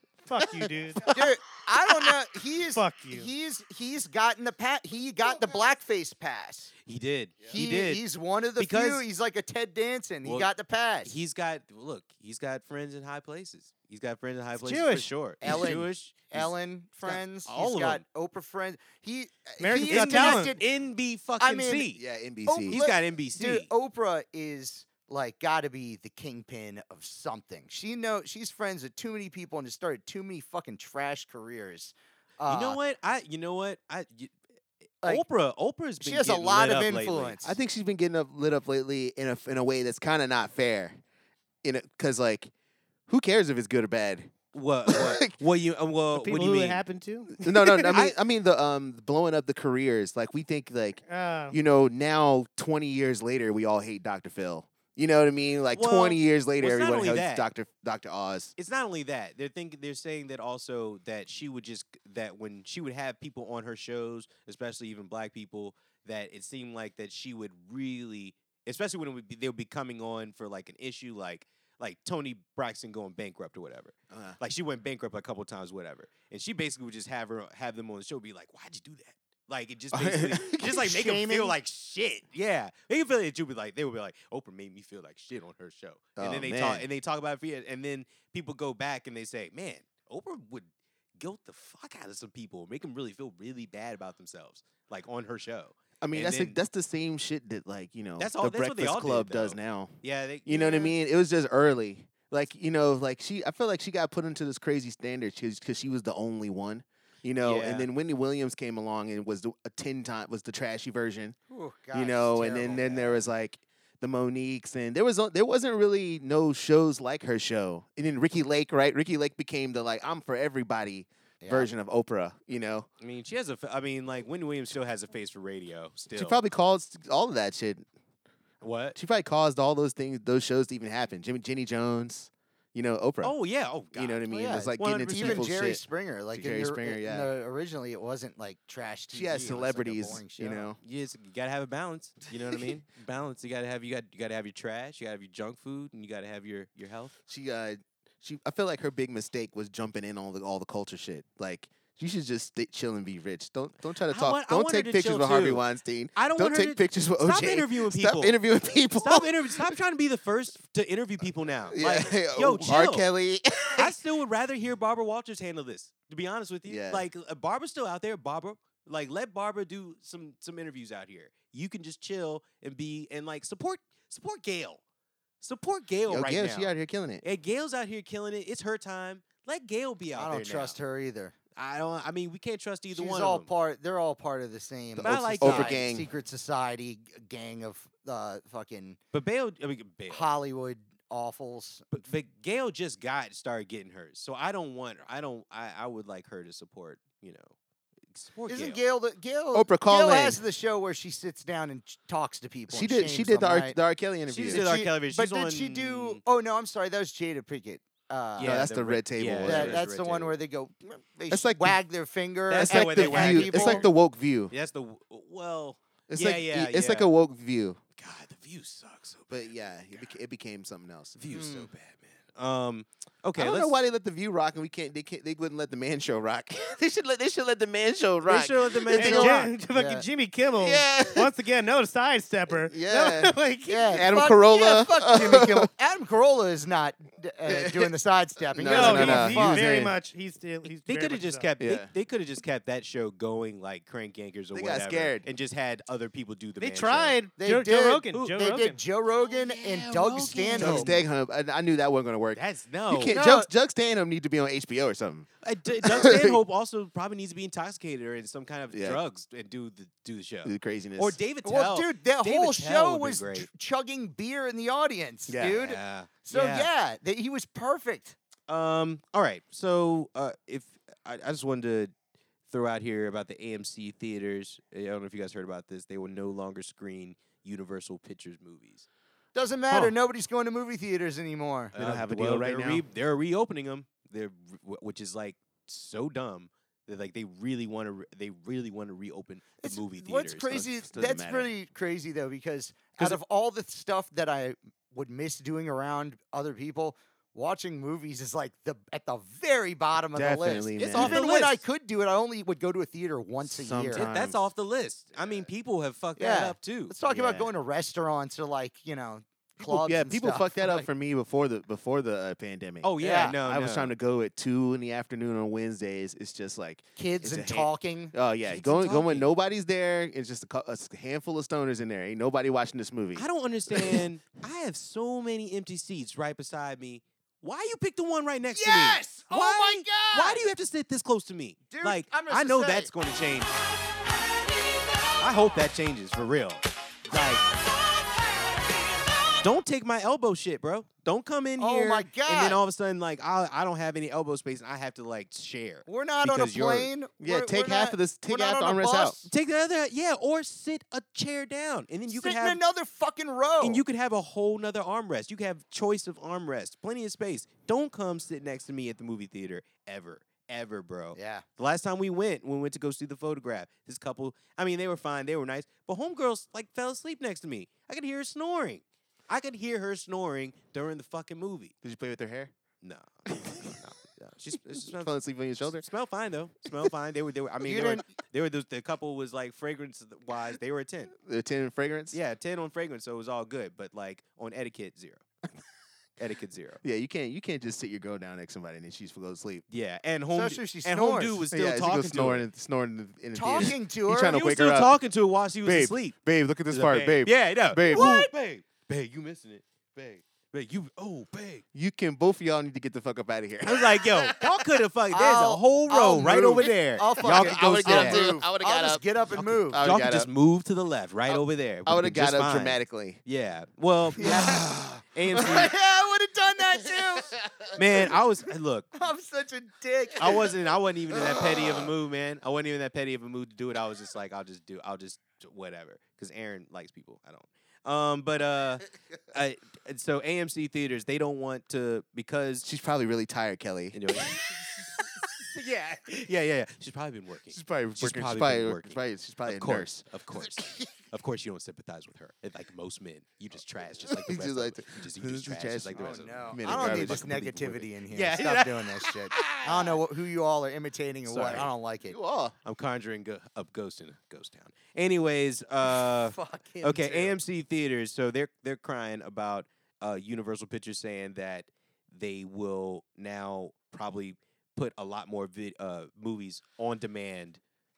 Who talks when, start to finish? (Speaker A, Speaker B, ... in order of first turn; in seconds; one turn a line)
Speaker A: 0.2-1.0
Speaker B: 0.9-1.2
Speaker C: 1.1-6.7
Speaker A: 2.7-3.3
Speaker D: 6.8-8.0
Speaker C: 7.5-11.2
Speaker D: 8.6-9.0
Speaker D: 10.2-10.5
Speaker D: 11.0-16.5
Speaker A: 14.6-15.1
Speaker C: 15.4-20.6
Speaker D: 17.0-18.0
Speaker A: 19.6-20.5
Speaker D: 19.8-22.0
Speaker C: 21.4-21.9
Speaker B: 21.9-22.8
Speaker C: 22.4-32.8
Speaker D: 22.7-23.7
Speaker D: 32.5-34.3
Speaker D: 35.0-37.4
Speaker C: 36.0-37.6
Speaker B: 37.4-41.0
Speaker B: 41.6-42.5
Speaker B: 43.1-44.3
Speaker D: 44.5-46.8
Speaker B: 44.9-45.3
Speaker A: 46.1-48.0
Speaker B: 47.4-58.5
Speaker A: 51.1-51.6
Speaker D: 55.7-57.5
Speaker D: 58.6-96.6
Speaker B: 74.1-74.4
Speaker B: 79.9-80.8
Speaker C: 80.8-81.6
Speaker B: 86.2-86.8
Speaker B: 96.0-99.9
Speaker D: 98.2-101.0
Speaker B: 100.4-111.3
Speaker D: 107.4-107.9
Speaker C: 111.5-113.1
Speaker B: 111.9-122.9
Speaker D: 112.6-113.1
Speaker C: 121.4-121.7
Speaker D: 123.0-126.4
Speaker B: 126.1-127.8
Speaker D: 128.6-129.0
Speaker B: 128.9-133.3
Speaker D: 133.2-134.2
Speaker B: 133.9-135.8
Speaker C: 134.3-140.7
Speaker D: 134.8-135.5
Speaker B: 136.3-137.3
Speaker B: 139.1-140.8
Speaker D: 140.8-147.1
Speaker B: 147.3-159.8
Speaker D: 154.1-155.6
Speaker D: 156.2-158.3
Speaker D: 159.0-163.1
Speaker B: 161.7-163.9
Speaker D: 163.7-174.8
Speaker B: 166.7-167.1
Speaker D: 175.4-176.7
Speaker B: 176.1-177.2
Speaker D: 177.2-180.8
Speaker C: 180.1-181.3
Speaker D: 181.6-183.5
Speaker C: 182.9-189.0
Speaker B: 184.9-186.1
Speaker D: 185.0-185.8
Speaker D: 189.1-190.3
Speaker C: 190.1-192.0
Speaker D: 191.9-197.5
Speaker D: 198.1-198.8
Speaker C: 198.5-203.8
Speaker B: 199.5-200.4
Speaker B: 202.7-204.7
Speaker D: 204.3-206.2
Speaker C: 204.5-208.6
Speaker D: 208.3-210.4
Speaker B: 208.4-209.8
Speaker C: 209.4-213.9
Speaker B: 211.3-211.8
Speaker D: 212.5-213.9
Speaker B: 212.6-214.5
Speaker D: 214.5-217.1
Speaker B: 216.1-217.8
Speaker D: 218.0-220.0
Speaker B: 219.3-221.2
Speaker D: 221.2-223.7
Speaker C: 221.3-221.7
Speaker B: 223.3-229.5
Speaker D: 228.2-229.5
Speaker A: 228.9-234.0
Speaker C: 229.7-230.0
Speaker B: 230.6-231.3
Speaker B: 232.5-233.3
Speaker C: 233.7-239.7
Speaker B: 233.9-235.7
Speaker B: 237.5-237.9
Speaker B: 238.5-239.9
Speaker A: 238.7-241.5
Speaker D: 240.8-247.2
Speaker B: 241.6-241.9
Speaker B: 244.5-245.2
Speaker A: 246.6-248.8
Speaker C: 247.4-250.9
Speaker D: 249.2-251.0
Speaker B: 250.6-255.3
Speaker D: 252.3-253.1
Speaker C: 253.1-253.5
Speaker D: 255.4-263.5
Speaker B: 255.8-256.4
Speaker B: 258.7-259.0
Speaker B: 260.4-261.2
Speaker C: 261.4-268.1
Speaker B: 265.3-265.6
Speaker D: 265.4-266.7
Speaker D: 268.5-271.9
Speaker D: 272.5-278.9
Speaker C: 279.3-281.7
Speaker D: 281.7-290.6
Speaker B: 281.7-282.8
Speaker C: 289.6-304.1
Speaker B: 290.5-291.5
Speaker B: 300.1-301.2
Speaker D: 300.8-301.6
Speaker B: 303.4-304.4
Speaker D: 303.9-307.5
Speaker C: 306.2-310.9
Speaker B: 309.6-324.0
Speaker D: 312.8-313.9
Speaker C: 313.0-313.4
Speaker C: 317.0-318.1
Speaker D: 318.4-319.3
Speaker D: 323.1-333.6
Speaker C: 328.5-330.4
Speaker C: 331.7-332.9
Speaker D: 335.2-337.4
Speaker D: 339.4-346.9
Speaker C: 341.6-342.6
Speaker C: 345.9-349.3
Speaker B: 347.2-349.2
Speaker D: 349.3-352.6
Speaker C: 352.1-353.8
Speaker D: 353.6-371.7
Speaker C: 361.1-361.4
Speaker B: 371.8-372.5
Speaker D: 372.8-381.1
Speaker B: 373.3-373.7
Speaker B: 374.7-375.8
Speaker C: 377.6-378.1
Speaker B: 381.1-382.2
Speaker D: 382.1-385.2
Speaker D: 386.2-386.8
Speaker B: 386.8-389.6
Speaker D: 389.7-392.4
Speaker C: 390.3-391.4
Speaker B: 391.5-394.9
Speaker C: 393.3-394.4
Speaker D: 393.6-396.1
Speaker B: 395.6-398.2
Speaker D: 396.7-401.6
Speaker C: 397.9-398.3
Speaker B: 401.7-404.6
Speaker D: 403.6-408.2
Speaker C: 405.1-409.8
Speaker B: 407.2-410.3
Speaker D: 409.8-415.7
Speaker B: 411.9-413.2
Speaker B: 414.2-415.6
Speaker C: 415.4-417.3
Speaker B: 417.4-417.7
Speaker D: 417.8-418.9
Speaker C: 418.9-420.5
Speaker D: 420.2-432.7
Speaker B: 432.6-434.0
Speaker D: 433.9-450.0
Speaker B: 437.5-440.1
Speaker B: 444.1-447.8
Speaker C: 445.9-452.2
Speaker D: 451.3-451.7
Speaker B: 452.0-452.5
Speaker D: 452.6-467.6
Speaker C: 455.9-457.4